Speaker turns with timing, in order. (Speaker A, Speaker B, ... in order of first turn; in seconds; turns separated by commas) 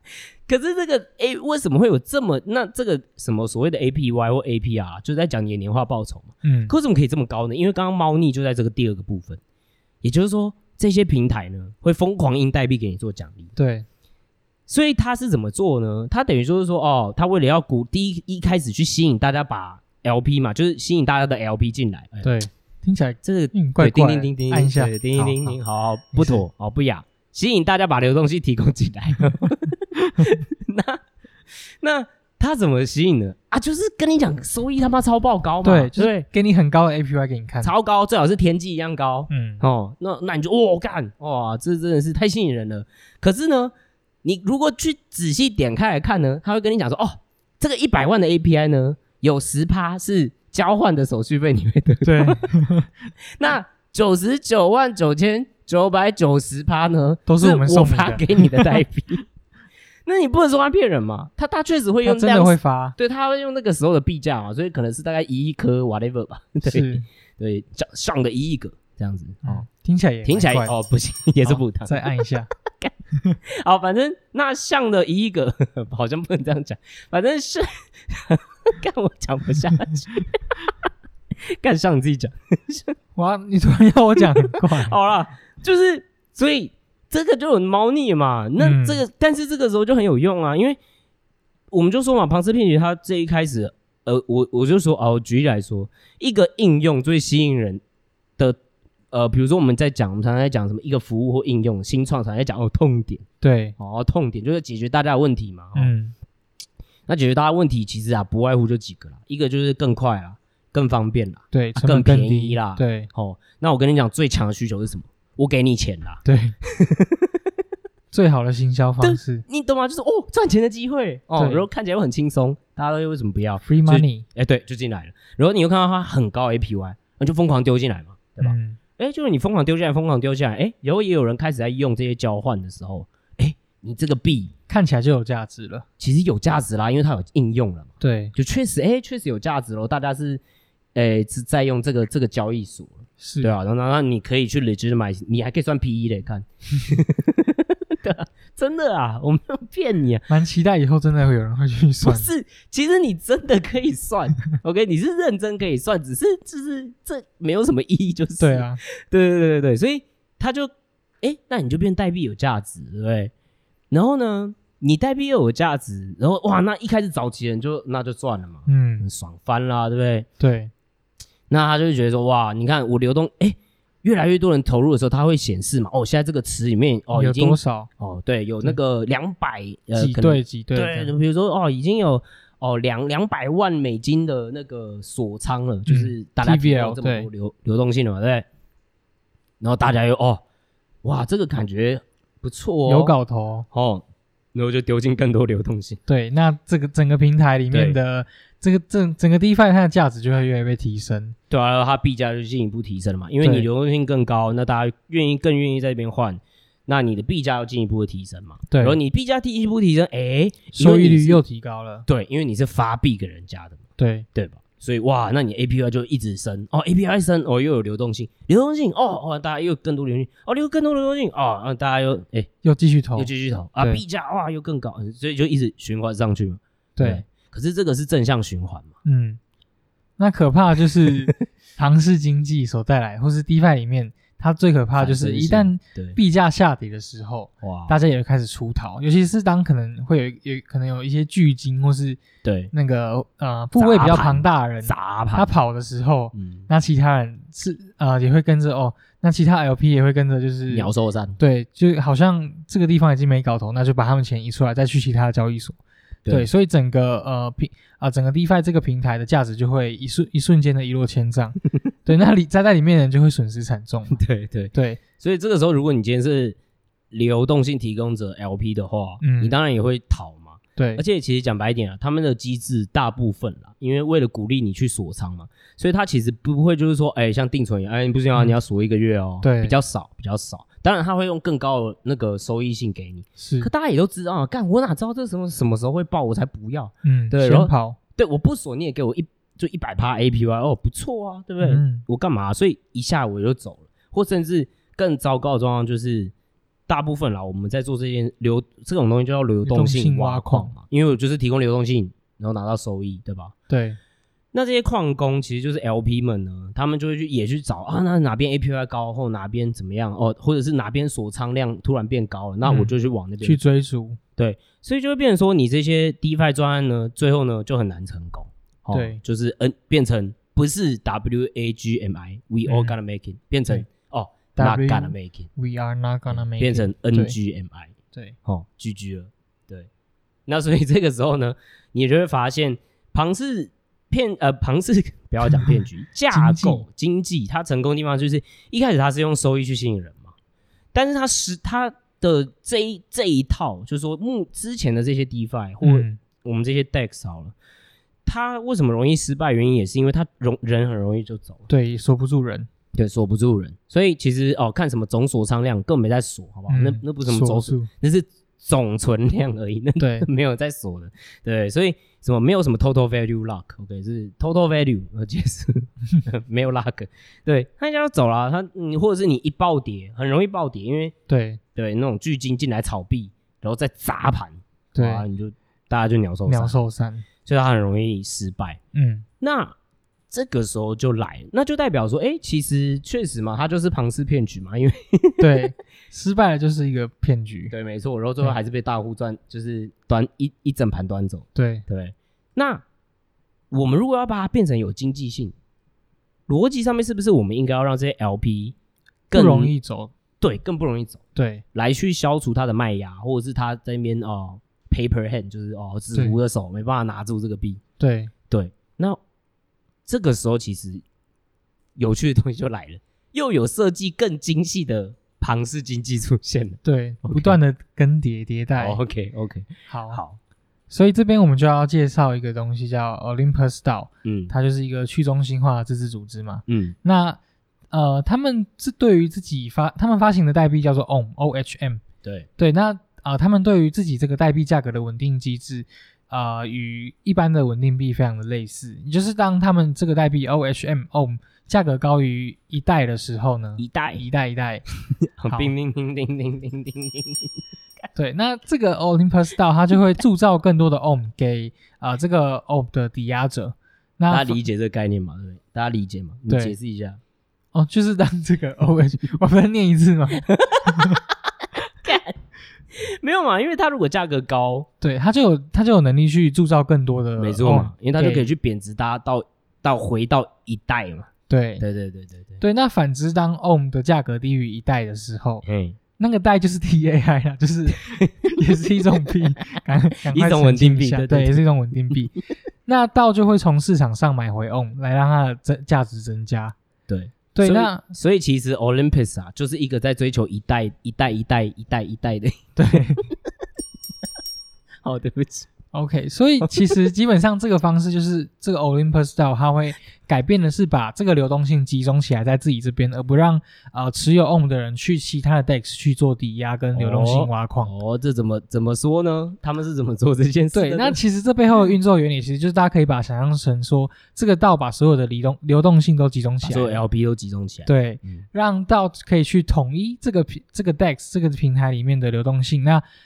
Speaker A: 0.5-9.4, Speaker B: 6.4-6.7, Speaker A: 10.0-13.5, Speaker B: 13.6-13.9, Speaker A: 14.7-22.3, Speaker B: 22.2-25.6, Speaker A: 23.2-31.0, Speaker B: 26.1-26.4, Speaker A: 31.6-36.3, Speaker B: 35.6-37.7, Speaker A: 37.6-43.7, Speaker B: 39.3-39.6, Speaker A: 44.2-52.5, Speaker B: 52.0-52.9, Speaker A: 53.2-59.3, Speaker B: 57.3-58.8, Speaker A: 60.1-69.7, Speaker B: 62.0-63.0, Speaker B: 66.6-67.1, Speaker B: 69.4-70.7, Speaker A: 70.2-72.2, Speaker B: 71.4-72.5, Speaker A: 73.5-80.3, Speaker A: 81.6-83.0, Speaker B: 83.2-85.0, Speaker A: 84.2-90.8, Speaker B: 88.6-89.0, Speaker A: 91.7-97.8, Speaker A: 99.1-103.2, Speaker B: 103.4-103.8, Speaker A: 103.8-105.9, Speaker B: 105.8-106.1, Speaker A: 107.1-117.3, Speaker B: 111.5-113.1, Speaker B: 116.2-116.6, Speaker B: 118.1-119.5, Speaker A: 119.0-134.5, Speaker B: 121.4-121.7, Speaker B: 123.7-124.2, Speaker B: 128.4-128.8, Speaker B: 134.7-135.9, Speaker A: 136.0-140.4, Speaker B: 138.0-138.3, Speaker A: 140.9-150.3, Speaker B: 143.2-143.5, Speaker B: 150.3-152.3, Speaker A: 152.0-160.7, Speaker B: 158.4-158.8, Speaker A: 161.2-163.3, Speaker A: 163.9-170.3, Speaker B: 168.7-169.1, Speaker B: 170.4-170.7, Speaker A: 171.5-188.5, Speaker B: 177.1-177.9, Speaker B: 179.9-181.1, Speaker B: 185.9-187.3, Speaker A: 189.6-190.4, Speaker A: 191.0-193.2, Speaker B: 192.9-193.7, Speaker A: 193.7-196.0, Speaker B: 196.1-201.4, Speaker A: 197.7-198.0, Speaker A: 201.5-211.4, Speaker B: 203.4-203.7, Speaker B: 208.7-209.0, Speaker B: 210.7-212.1, Speaker A: 212.1-213.8, Speaker B: 214.0-214.3, Speaker A: 214.3-222.5, Speaker B: 222.6-224.0, Speaker A: 223.2-228.9, Speaker B: 227.0-227.2, Speaker B: 229.1-229.4, Speaker B: 230.2-242.2, Speaker A: 234.9-236.2, Speaker A: 237.6-238.0, Speaker A: 242.4-242.7, Speaker B: 242.7-264.2, Speaker A: 243.8-245.5, Speaker A: 246.3-246.7, Speaker A: 250.7-251.4, Speaker A: 264.1-266.6, Speaker B: 264.7-265.0, Speaker A: 267.1-296.3, Speaker B: 269.2-269.6, Speaker B: 270.8-271.0, Speaker B: 279.4-279.8, Speaker B: 283.4-283.7, Speaker B: 287.0-288.0, Speaker B: 291.6-292.0, Speaker A: 296.9-303.5, Speaker B: 299.6-300.8, Speaker B: 303.7-304.0, Speaker A: 304.5-313.6, Speaker B: 312.6-314.2, Speaker A: 314.4-325.5, Speaker B: 318.9-319.2, Speaker B: 322.7-323.0, Speaker B: 324.6-327.4, Speaker A: 326.3-327.9, Speaker A: 328.4-329.9, Speaker A: 330.5-340.3, Speaker B: 335.5-335.8, Speaker B: 336.3-336.9, Speaker A: 340.9-347.6, Speaker B: 345.8-346.2, Speaker A: 348.3-351.7, Speaker B: 351.7-352.7, Speaker A: 352.9-371.1, Speaker B: 356.7-357.9, Speaker B: 360.0-360.3, Speaker B: 371.3-371.6, Speaker A: 371.8-376.8, Speaker B: 374.9-375.2, Speaker B: 376.5-377.3, Speaker A: 377.4-378.8, Speaker B: 378.9-379.3, Speaker A: 379.4-379.7, Speaker A: 380.3-385.5, Speaker B: 385.4-387.7, Speaker A: 387.7-392.8, Speaker B: 391.6-391.9, Speaker A: 393.7-395.6, Speaker A: 396.5-398.8, Speaker A: 399.3-399.7, Speaker B: 399.3-400.1, Speaker A: 400.4-401.2, Speaker B: 401.4-401.6, Speaker A: 401.7-407.8, Speaker B: 408.0-408.3, Speaker A: 408.5-409.2, Speaker A: 410.1-411.0, Speaker A: 412.0-417.6, Speaker B: 416.8-419.0, Speaker A: 418.8-420.4, Speaker B: 419.9-420.2, Speaker B: 420.9-427.4, Speaker A: 424.2-424.5, Speaker A: 426.7-427.0, Speaker B: 427.9-432.0, Speaker B: 432.6-444.8, Speaker A: 443.8-444.2, Speaker A: 445.4-447.5, Speaker B: 448.1-454.6, Speaker A: 454.3-457.2, Speaker B: 456.5-456.7, Speaker B: 457.7-461.2, Speaker A: 460.4-462.4, Speaker A: 462.9-464.9, Speaker B: 465.0-468.5, Speaker A: 467.4-472.6, Speaker B: 471.5-471.8, Speaker B: 472.6-475.6, Speaker A: 475.6-476.0, Speaker B: 476.2-486.8, Speaker A: 480.3-481.6, Speaker A: 487.1-493.1, Speaker B: 487.5-488.0, Speaker B: 492.8-493.2, Speaker A: 495.0-495.7, Speaker B: 495.9-507.9, Speaker A: 496.6-496.9, Speaker A: 506.9-511.2, Speaker B: 510.7-517.0, Speaker A: 516.6-518.5, Speaker B: 517.9-523.0